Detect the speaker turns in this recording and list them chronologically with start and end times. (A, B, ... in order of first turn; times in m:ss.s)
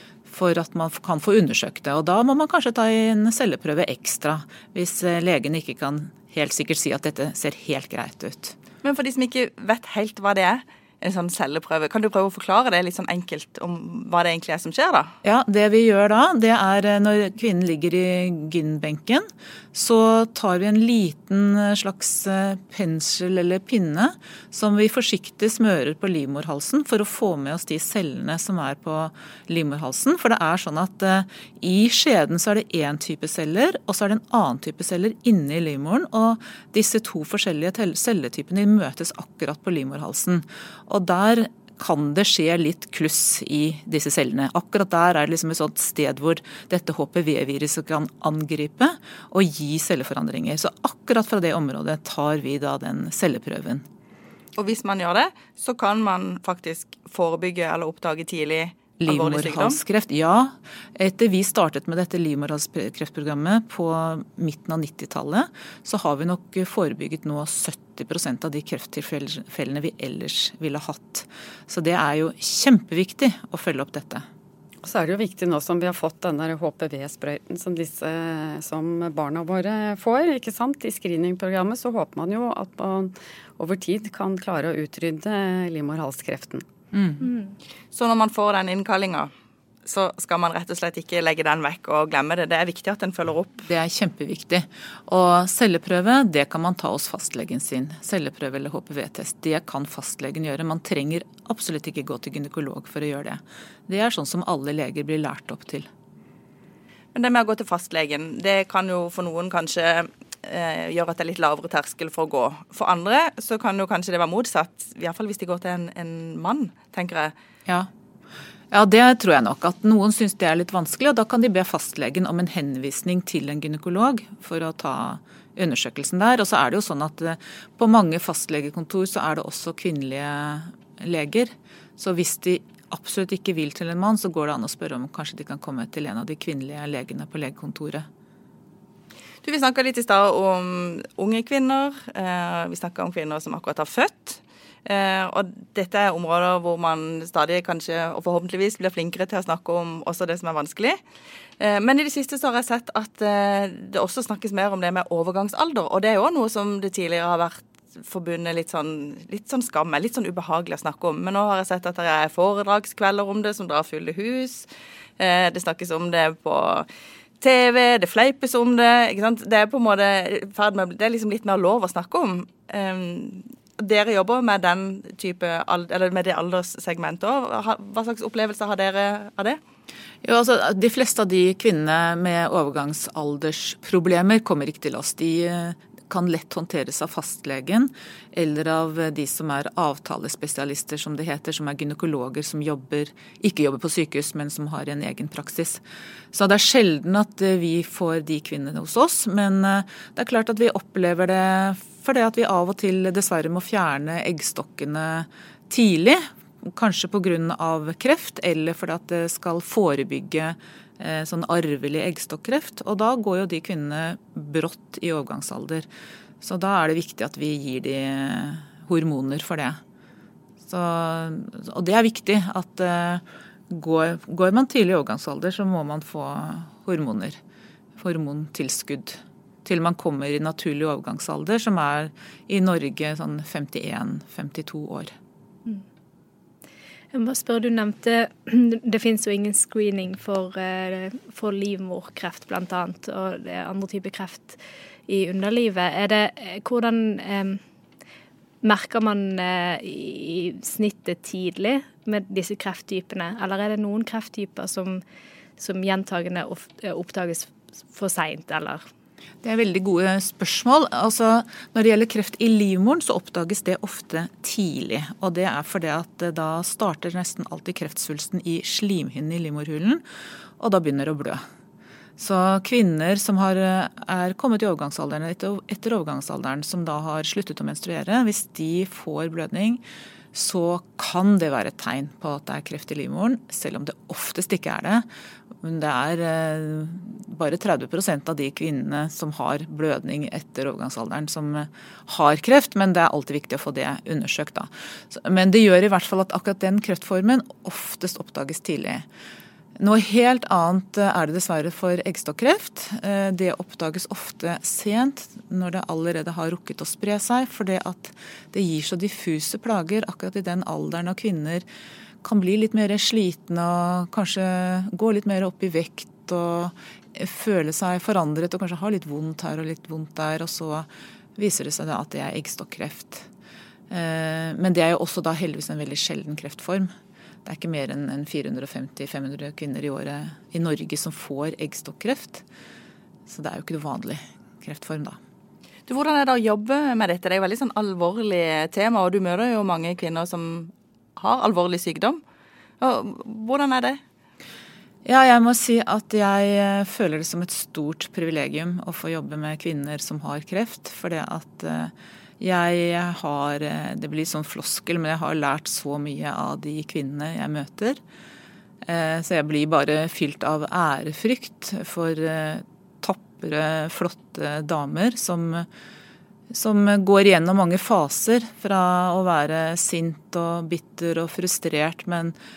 0:00.3-0:08.6 A
0:08.8-0:15.1 B
0:15.2-0:53.8 A
0:54.6-0:59.8 B
0:59.0-1:14.2 A
1:14.8-1:26.7 C
1:26.9-1:27.2 A
1:27.9-1:29.3 B
1:29.8-1:33.7 B
1:33.7-1:45.9 A
1:47.1-1:57.3 B
1:58.7-2:18.1 A
2:19.4-2:31.0 B
2:31.6-2:44.7 B
2:45.2-2:46.9 B
2:47.4-2:59.6 B
3:00.2-3:15.8 A
3:16.3-3:35.9 A
3:36.4-3:39.8 A
3:40.7-3:47.4 A
3:48.0-3:55.1 A
3:57.1-4:07.6 D
4:08.6-4:15.0 D
4:15.6-4:18.8 D
4:19.4-4:30.0 A
4:30.6-4:31.4 A
4:32.2-4:39.8 A
4:40.3-4:45.1 A
4:45.6-4:59.0 A
4:59.8-5:11.6 A
5:12.2-5:23.3 A
5:23.9-5:26.9 A
5:27.4-5:32.4 A
5:33.3-5:35.2 A
5:35.9-5:42.2 B
5:42.8-5:44.0 B
5:45.0-5:58.0 A
5:58.9-6:05.7 A
6:06.5-6:12.4 A